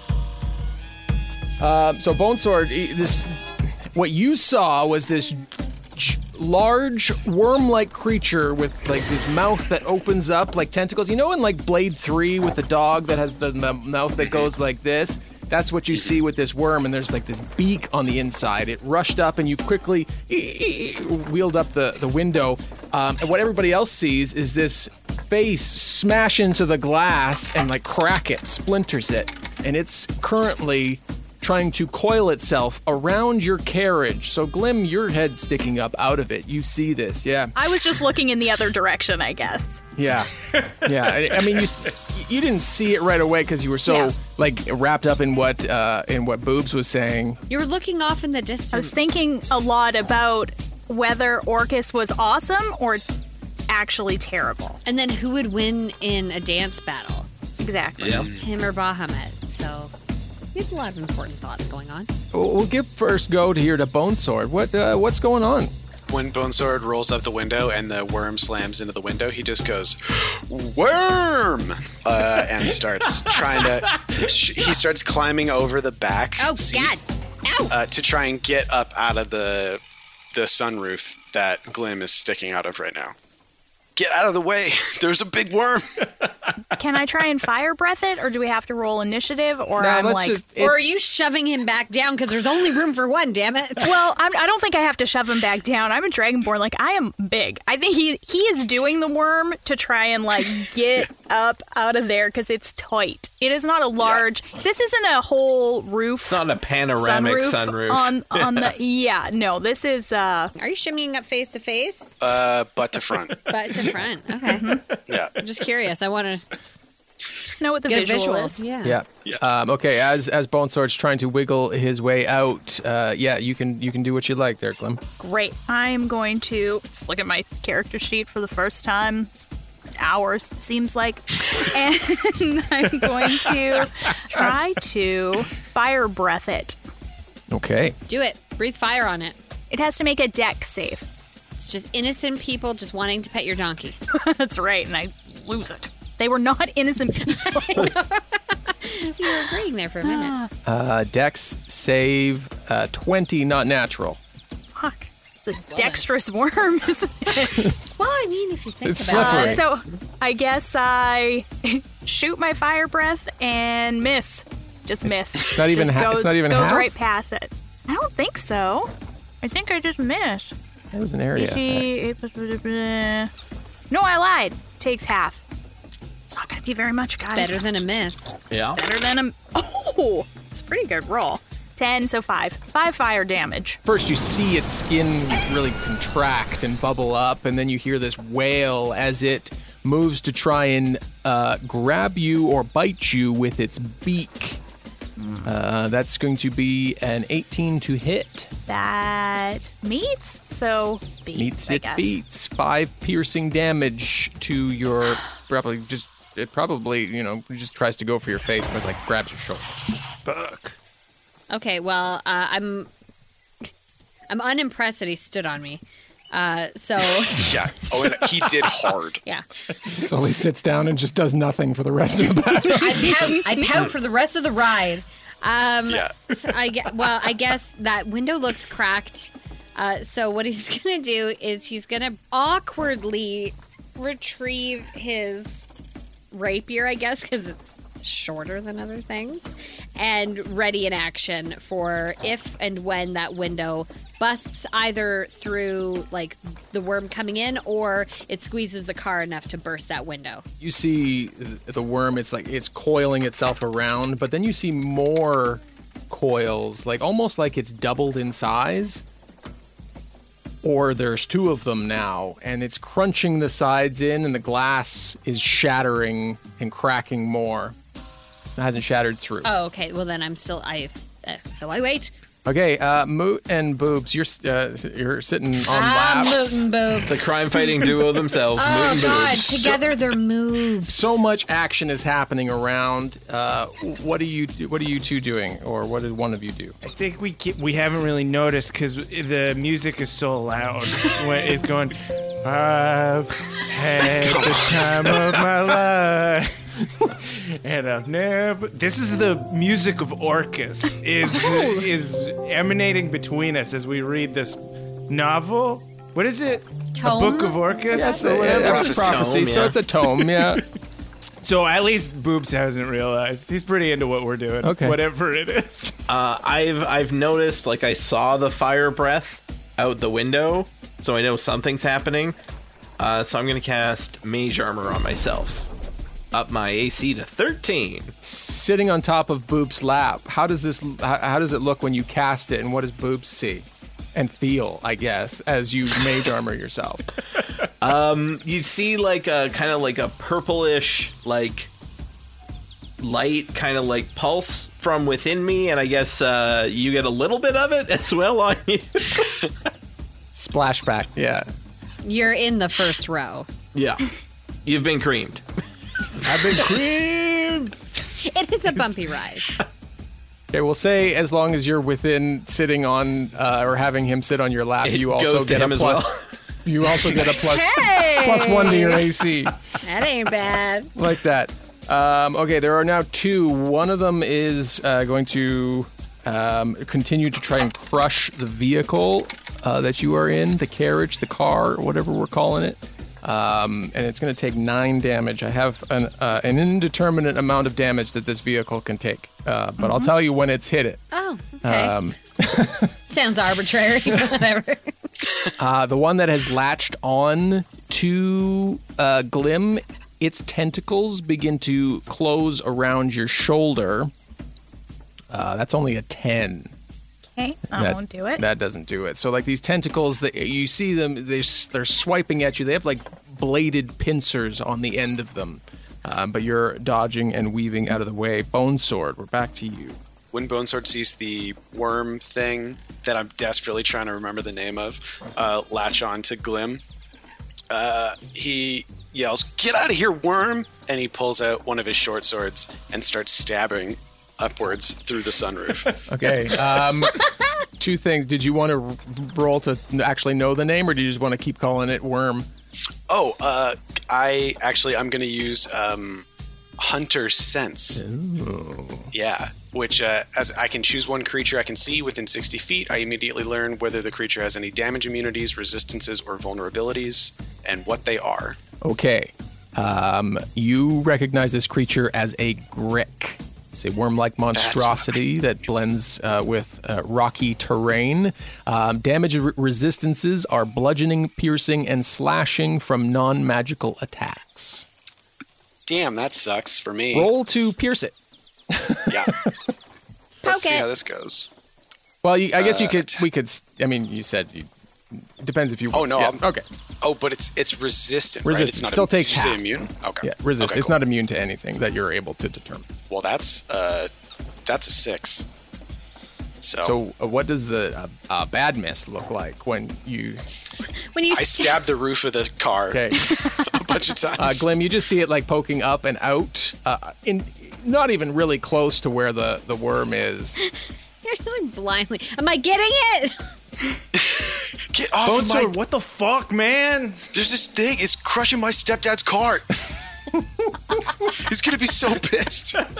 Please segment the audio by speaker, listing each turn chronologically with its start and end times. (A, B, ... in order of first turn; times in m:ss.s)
0:01.6-0:37.5 A
0:37.5-0:39.8 B
0:40.0-0:47.4 A
0:40.7-0:41.7 C
0:47.5-0:49.2 D
0:48.7-0:53.0 B
0:53.7-0:54.8 B
0:54.8-0:57.3 D
0:57.6-0:58.2 B
0:58.0-0:58.5 E
0:58.0-0:58.3 F
0:58.4-0:59.9 D
1:00.5-1:02.1 D
1:02.3-1:05.7 A
1:06.1-1:16.9 E
1:13.3-1:14.2 C
1:16.4-1:17.8 D
1:17.7-1:19.8 E
1:20.3-1:23.1 E
1:24.0-1:26.0 E
1:26.7-1:30.4 B
1:29.8-1:30.8 A
1:30.6-1:33.9 D
1:33.8-1:50.5 B
1:46.2-1:48.7 F
1:50.6-1:52.2 D
1:52.2-1:53.4 E
1:53.5-1:54.8 D
1:54.5-1:54.8 B
1:55.1-1:55.3 E
1:55.4-1:56.8 D
1:57.4-1:58.6 B
1:57.9-1:59.0 D
1:58.8-2:05.0 A
2:05.2-2:16.8 B
2:17.5-2:18.0 A
2:18.1-2:19.4 D
2:19.7-2:21.1 B
2:21.6-2:24.0 D
2:24.1-2:27.9 B
2:27.2-2:30.4 D
2:30.0-2:30.5 B
2:30.6-2:34.2 A
2:34.7-2:37.7 B
2:35.7-2:36.0 D
2:37.5-2:39.6 D
2:38.8-2:39.6 A
2:39.1-2:50.5 B
2:45.0-2:46.9 A
2:50.9-2:51.9 A
2:51.3-2:53.3 B
2:53.9-2:55.4 B
2:56.3-2:57.8 B
2:57.3-2:58.4 D
2:58.5-2:58.8 F
2:58.7-3:03.8 B
3:03.8-3:14.6 A
3:15.2-3:15.5 B
3:15.4-3:18.5 A
3:18.7-3:22.2 B
3:21.3-3:29.7 A
3:30.2-3:30.8 C
3:31.5-3:32.9 D
3:34.3-3:37.6 D
3:37.4-3:39.2 E
3:39.9-3:43.3 A
3:42.7-3:55.7 D
3:45.9-3:46.1 E
3:56.3-4:10.4 D
4:10.6-4:19.0 A
4:20.6-4:27.8 A
4:28.6-4:29.5 A
4:29.4-4:32.1 D
4:32.4-4:36.6 A
4:35.6-4:37.4 D
4:37.1-4:39.8 F
4:38.5-4:41.2 D
4:40.8-4:46.8 A
4:46.8-5:09.1 C
4:54.2-4:55.2 E
5:07.0-5:08.3 D
5:07.9-5:10.6 A
5:08.5-5:09.1 E
5:08.7-5:09.8 F
5:11.4-5:16.0 C
5:14.6-5:15.0 A
5:16.1-5:22.4 F
5:23.0-5:25.6 F
5:26.3-5:28.1 F
5:28.2-5:37.1 A
5:37.8-5:41.7 F
5:43.0-5:49.3 F
5:50.3-5:51.5 A
5:52.0-5:53.5 D
5:53.7-5:54.1 F
5:54.6-5:55.4 F
5:56.3-5:56.7 A
5:56.5-5:57.8 C
5:58.2-5:59.5 D
6:00.5-6:06.1 A
6:04.8-6:06.2 F
6:06.6-6:09.5 A
6:07.2-6:09.1 D
6:09.8-6:10.9 D
6:11.0-6:31.0 A
6:29.8-6:30.1 B
6:31.1-6:32.0 D
6:31.6-6:32.9 A
6:33.1-6:35.1 D
6:35.6-6:44.1 A
6:45.3-6:46.7 A
6:47.4-6:48.4 B
6:47.7-7:00.0 A
7:00.3-7:06.8 E
7:07.7-7:16.0 E
7:16.1-7:17.2 A
7:17.8-7:22.5 A
7:23.1-7:26.2 E
7:26.8-7:28.0 E
7:27.9-7:29.1 A
7:29.1-7:38.6 E
7:38.8-7:54.8 A
7:44.5-7:45.2 E
7:55.9-7:57.3 E
7:57.1-7:58.1 A
7:58.7-7:59.5 A
7:59.1-7:59.3 E
8:00.4-8:01.5 E
8:00.4-8:00.9 D
8:02.2-8:06.6 A
8:02.6-8:03.2 E
8:05.9-8:06.4 E
8:07.0-8:10.9 E
8:08.4-8:09.6 A
8:10.2-8:12.9 A
8:13.1-8:14.1 E
8:14.6-8:15.5 E
8:16.6-8:16.9 E
8:16.8-8:20.4 A
8:21.1-8:21.9 D
8:21.3-8:24.7 E
8:22.9-8:23.2 A
8:24.4-8:30.6 A
8:31.2-8:33.4 D
8:34.2-8:35.8 E
8:35.2-8:37.2 C
8:37.3-8:39.7 E
8:41.3-8:42.8 E